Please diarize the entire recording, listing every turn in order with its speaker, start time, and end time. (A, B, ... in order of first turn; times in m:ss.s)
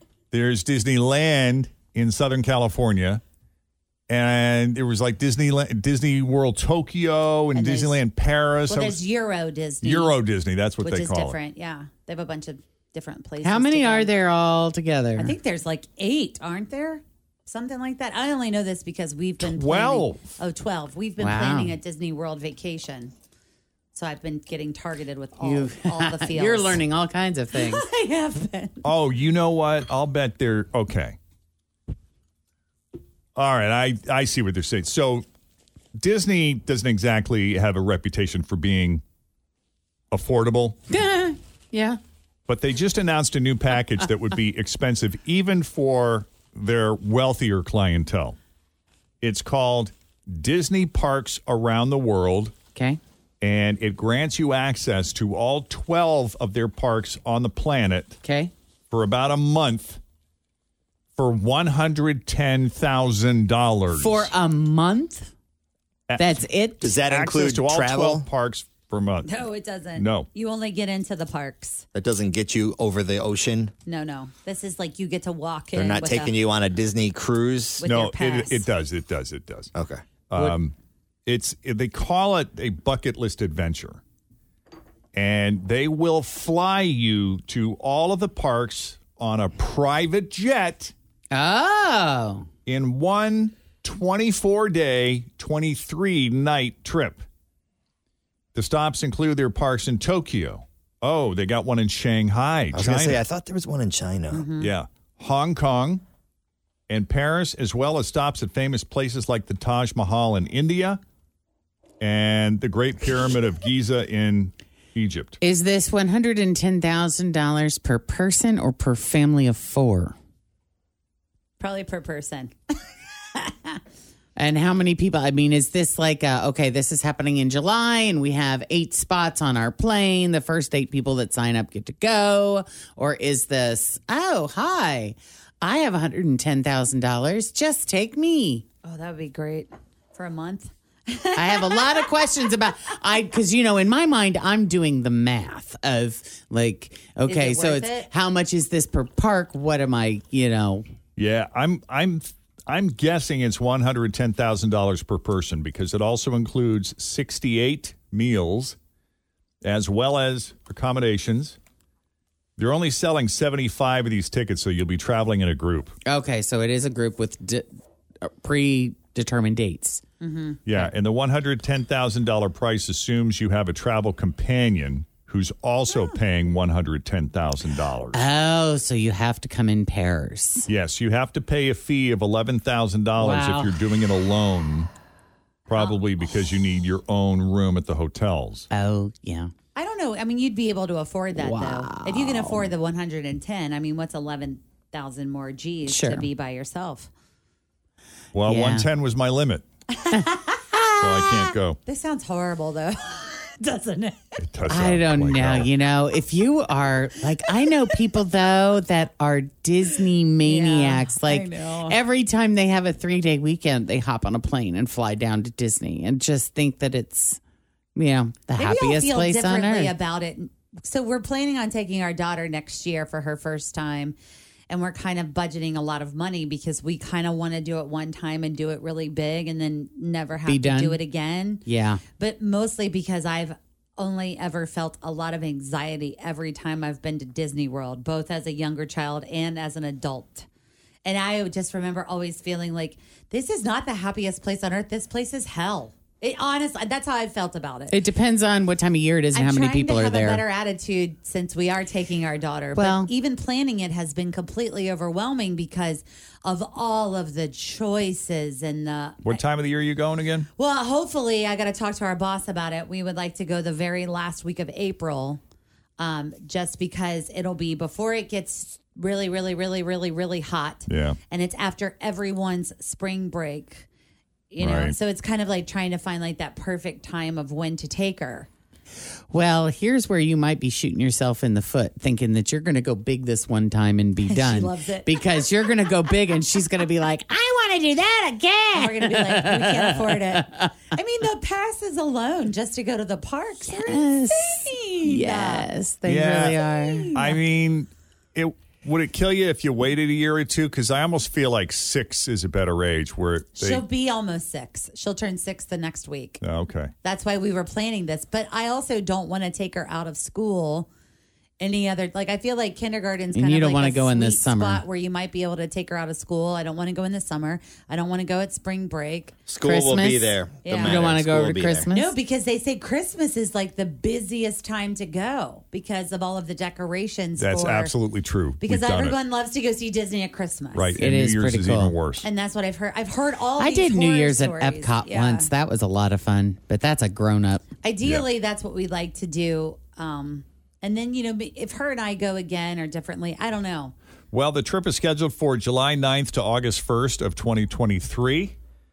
0:00.3-0:03.2 A
0:04.1-0:09.0 A
0:07.5-0:08.0 B
0:08.6-0:10.2 B
0:09.8-0:11.4 A
0:10.8-0:14.1 B
0:13.4-0:15.4 C
0:15.2-0:23.1 B
0:19.4-0:20.2 A
0:21.2-0:21.8 C
0:23.9-0:26.8 B
0:25.4-0:27.8 C
0:27.5-0:28.8 B
0:28.8-0:31.2 A
0:33.4-0:35.3 A
0:36.0-0:39.0 A
0:40.1-0:40.8 A
0:40.9-0:42.0 C
0:42.5-0:48.4 A
0:49.2-0:52.6 A
0:52.8-0:53.0 C
0:53.4-0:58.2 A
0:58.2-0:58.5 C
0:58.9-1:00.0 A
1:01.2-1:04.3 A
1:04.0-1:05.3 C
1:06.1-1:06.4 A
1:06.2-1:06.9 C
1:06.8-1:08.3 D
1:07.0-1:09.3 A
1:09.2-1:11.8 B
1:10.0-1:10.3 A
1:11.9-1:13.7 D
1:13.9-1:16.4 B
1:15.7-1:17.8 D
1:17.8-1:18.7 B
1:17.8-1:19.7 A
1:19.8-1:20.0 D
1:20.3-1:20.7 A
1:21.3-1:24.0 A
1:25.1-1:30.9 A
1:31.3-1:32.5 C
1:32.7-1:37.2 A
1:38.6-1:43.2 A
1:42.7-1:44.5 D
1:44.3-1:44.7 B
1:44.6-1:46.0 A
1:46.9-1:51.0 A
1:52.0-1:55.4 A
1:55.4-2:00.2 C
2:01.6-2:02.5 B
2:03.4-2:03.8 B
2:04.4-2:18.6 C
2:18.8-2:22.1 B
2:21.4-2:30.8 C
2:27.2-2:28.1 B
2:31.2-2:38.8 A
2:39.6-2:41.6 A
2:42.6-2:46.0 A
2:46.1-2:47.7 C
2:48.2-2:50.0 C
2:50.2-2:50.9 B
2:50.7-2:58.2 A
2:58.1-3:00.7 C
3:00.7-3:04.9 A
3:03.2-3:03.7 C
3:05.7-3:08.7 A
3:08.7-3:09.5 C
3:09.8-3:17.1 B
3:11.4-3:12.7 C
3:15.9-3:16.3 C
3:18.3-3:19.6 A
3:18.5-3:18.9 C
3:19.9-3:20.6 B
3:20.1-3:21.0 C
3:21.0-3:21.8 A
3:21.9-3:24.4 B
3:24.4-3:25.7 A
3:24.7-3:37.4 C
3:30.4-3:32.0 B
3:38.0-3:39.9 C
3:38.6-3:44.2 B
3:44.7-3:51.6 B
3:50.5-3:51.0 C
3:51.7-3:52.0 C
3:52.2-4:00.5 B
4:01.0-4:08.0 B
4:07.9-4:10.4 C
4:09.3-4:19.4 B
4:12.8-4:13.1 C
4:19.2-4:20.5 A
4:20.6-4:25.4 B
4:26.0-4:33.9 B
4:30.9-4:31.2 A
4:34.5-4:38.5 B
4:34.6-4:35.0 A
4:39.3-4:50.7 C
4:44.2-4:45.5 B
4:48.7-4:55.7 B
4:53.7-4:57.2 C
4:56.1-4:56.6 A
4:56.5-4:57.4 B
4:57.1-5:03.8 A
5:03.6-5:06.4 B
5:06.4-5:06.9 A
5:07.0-5:10.9 B
5:11.6-5:19.4 B
5:13.3-5:14.8 C
5:19.5-5:21.9 D
5:19.6-5:22.1 C
5:20.6-5:21.1 B
5:21.9-5:27.9 B
5:27.4-5:29.2 A
5:28.6-5:31.0 B
5:30.7-5:32.3 A
5:31.0-5:32.0 C
5:32.2-5:35.5 B
5:33.6-5:37.6 C
5:37.8-5:44.0 B
5:44.3-5:48.6 A